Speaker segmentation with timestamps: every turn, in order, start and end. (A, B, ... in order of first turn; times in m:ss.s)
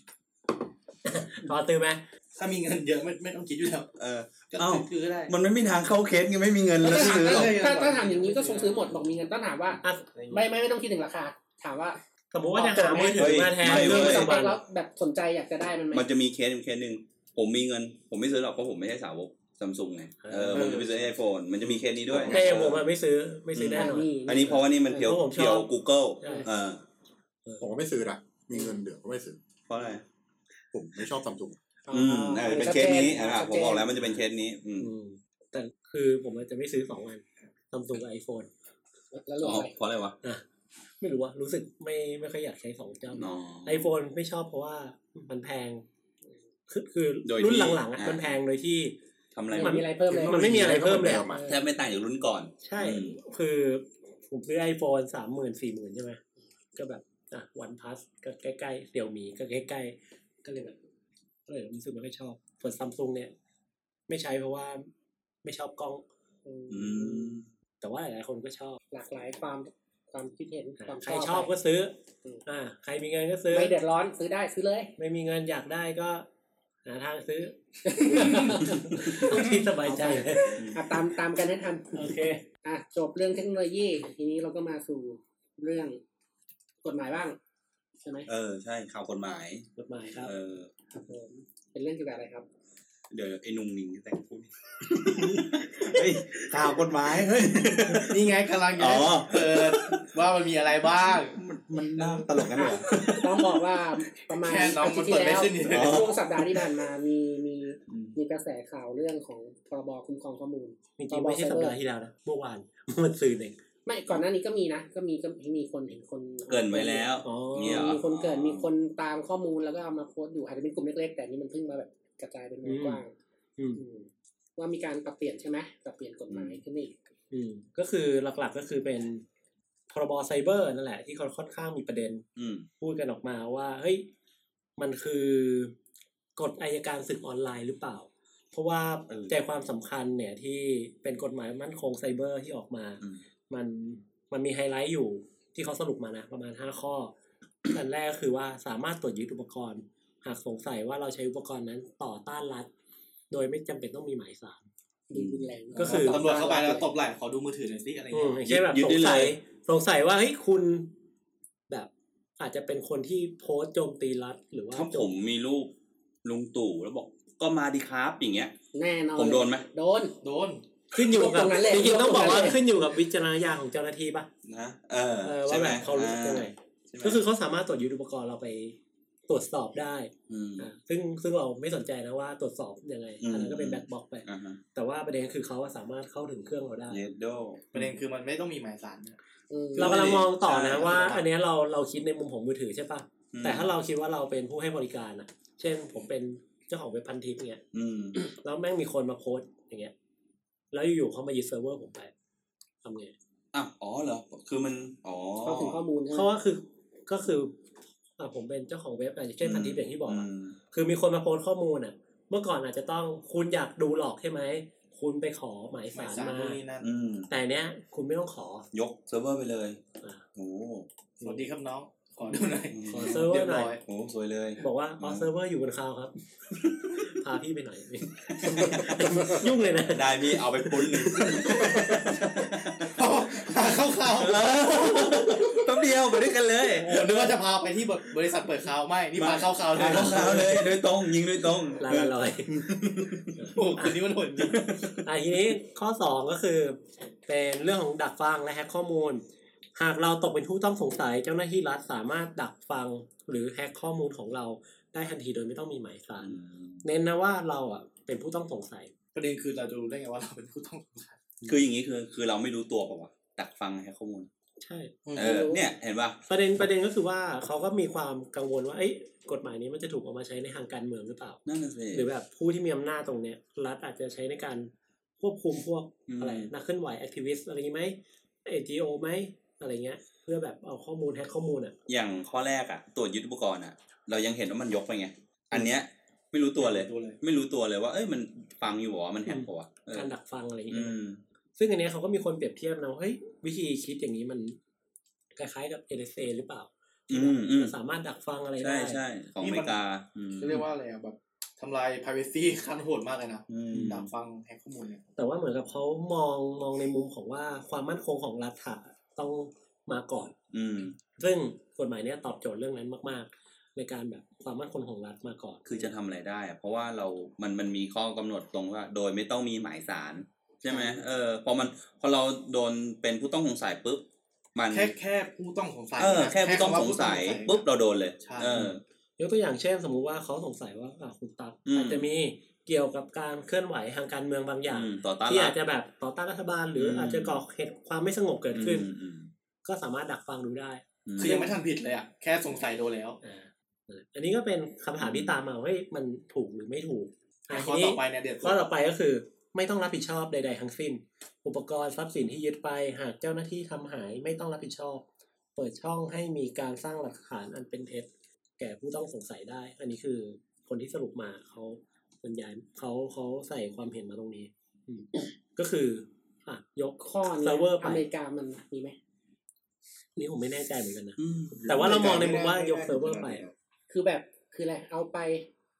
0:01.0-0:02.0 A
0:02.3-0:03.9 B
0:04.0-0:07.5 C
0:04.5-0:05.3 B
0:06.8-0:09.1 B
0:06.9-0:12.0 D
0:10.1-0:10.4 B
0:12.3-0:14.6 A
0:12.5-0:16.0 D
0:13.1-0:14.3 C
0:15.9-0:22.8 C
0:20.2-0:20.8 A
0:20.5-0:21.1 B
0:22.1-0:22.7 D
0:22.2-0:24.1 A
0:23.5-0:26.8 C
0:23.7-0:25.1 D
0:24.9-0:25.7 A
0:26.2-0:26.5 A
0:26.2-0:26.5 D
0:27.6-0:29.4 E
0:29.7-0:30.0 C
0:30.7-0:31.6 E
0:31.9-0:34.1 D
0:31.9-0:34.9 C
0:34.8-0:38.5 A
0:39.1-0:39.7 D
0:39.4-0:40.2 C
0:41.0-0:45.8 A
0:43.1-0:43.8 C
0:46.7-0:48.9 A
0:47.2-0:48.3 C
0:49.3-0:49.9 C
0:49.5-0:51.5 D
0:49.5-0:51.6 A
0:50.1-0:51.5 E
0:51.5-0:53.2 C
0:52.6-0:56.2 A
0:56.8-1:00.8 A
1:01.5-1:03.3 A
1:04.1-1:04.9 A
1:05.4-1:06.0 A
1:06.4-1:07.4 D
1:06.7-1:07.5 C
1:07.8-1:08.8 A
1:08.9-1:11.5 D
1:10.8-1:11.9 A
1:12.4-1:13.7 A
1:13.5-1:14.9 D
1:15.0-1:16.3 A
1:16.8-1:20.6 A
1:17.8-1:26.0 D
1:21.9-1:22.4 A
1:26.8-1:27.4 D
1:28.0-1:28.3 D
1:28.3-1:29.7 C
1:29.8-1:30.3 A
1:30.2-1:30.7 C
1:30.9-1:32.4 D
1:33.1-1:40.0 C
1:38.1-1:41.4 B
1:40.8-1:43.4 C
1:42.5-1:51.8 D
1:42.9-1:43.2 A
1:44.3-1:46.1 B
1:45.7-1:46.6 C
1:47.9-1:48.2 C
1:51.0-1:53.6 A
1:53.8-2:03.1 D
1:56.5-1:58.7 C
1:57.2-1:58.0 A
2:02.6-2:03.0 A
2:03.6-2:03.8 A
2:03.8-2:06.9 D
2:06.3-2:06.6 C
2:07.3-2:09.2 A
2:09.9-2:12.2 A
2:12.4-2:12.7 C
2:12.8-2:14.0 A
2:14.8-2:15.7 A
2:16.4-2:27.1 A
2:19.1-2:19.3 C
2:27.7-2:32.7 A
2:33.3-2:34.7 A
2:35.1-2:36.9 D
2:35.1-2:35.5 C
2:35.7-2:38.5 B
2:35.8-2:36.2 A
2:38.1-2:40.9 A
2:38.4-2:39.3 C
2:41.7-2:45.1 A
2:44.7-2:45.7 C
2:46.2-2:48.5 C
2:48.7-2:50.2 D
2:49.1-2:49.7 C
2:50.2-2:50.6 B
2:50.9-2:54.3 A
2:51.1-2:52.6 D
2:54.4-2:56.5 C
2:55.2-2:58.8 A
2:56.9-2:57.2 B
2:59.3-3:07.0 A
3:00.3-3:00.7 C
3:03.2-3:04.6 C
3:06.9-3:07.8 C
3:07.7-3:09.2 B
3:09.5-3:10.0 D
3:09.8-3:11.2 C
3:09.8-3:17.6 A
3:10.0-3:11.2 B
3:13.3-3:13.7 C
3:17.7-3:18.2 C
3:18.2-3:19.9 A
3:20.7-3:22.1 A
3:22.8-3:23.1 A
3:23.5-3:25.8 C
3:25.4-3:26.3 D
3:26.1-3:27.6 A
3:28.2-3:36.6 A
3:29.4-3:30.6 C
3:35.9-3:36.9 B
3:36.8-3:37.3 C
3:37.3-3:38.7 A
3:38.7-3:39.8 C
3:40.4-3:40.9 C
3:41.2-3:43.8 B
3:42.7-3:43.2 C
3:42.9-3:43.8 A
3:43.8-3:45.3 C
3:44.6-3:46.1 A
3:46.6-3:47.1 C
3:47.0-3:50.1 A
3:48.3-3:53.4 C
3:51.4-3:52.2 B
3:52.8-3:55.6 B
3:54.1-3:57.3 C
3:56.7-4:00.6 B
3:59.2-4:03.4 C
3:59.8-4:00.6 A
4:01.8-4:02.5 A
4:03.4-4:04.0 A
4:03.5-4:04.7 B
4:04.4-4:05.0 C
4:05.0-4:09.2 A
4:09.8-4:18.9 A
4:16.2-4:16.8 C
4:19.1-4:21.2 B
4:21.5-4:24.3 C
4:24.6-4:24.9 A
4:25.0-4:25.5 B
4:25.2-4:25.6 D
4:25.2-4:26.2 C
4:26.3-4:31.4 A
4:31.4-4:32.1 C
4:31.9-4:41.7 A
4:36.1-4:36.5 C
4:41.9-4:50.1 C
4:46.6-4:47.2 B
4:49.3-4:51.0 A
4:50.7-4:51.2 C
4:51.6-4:54.6 A
4:55.4-4:59.0 A
4:57.1-4:57.7 C
4:58.6-5:00.6 C
4:59.4-4:59.8 B
5:00.3-5:05.0 B
5:03.5-5:04.1 C
5:05.2-5:10.4 A
5:10.5-5:11.0 C
5:11.0-5:15.9 A
5:15.6-5:24.9 C
5:20.6-5:21.0 B
5:24.7-5:27.6 B
5:26.0-5:28.8 C
5:28.2-5:28.7 B
5:28.6-5:38.9 A
5:31.7-5:32.0 C
5:34.7-5:35.5 C
5:36.8-5:37.4 C
5:38.5-5:39.3 C
5:39.6-5:41.5 A
5:41.0-5:41.4 C
5:41.2-5:43.2 B
5:43.2-5:55.0 A
5:45.0-5:45.3 C
5:47.5-5:48.6 B
5:55.6-6:08.0 A
6:07.0-6:09.0 D
6:10.2-6:13.4 A
6:11.2-6:11.6 C
6:11.5-6:13.5 E
6:13.9-6:15.5 D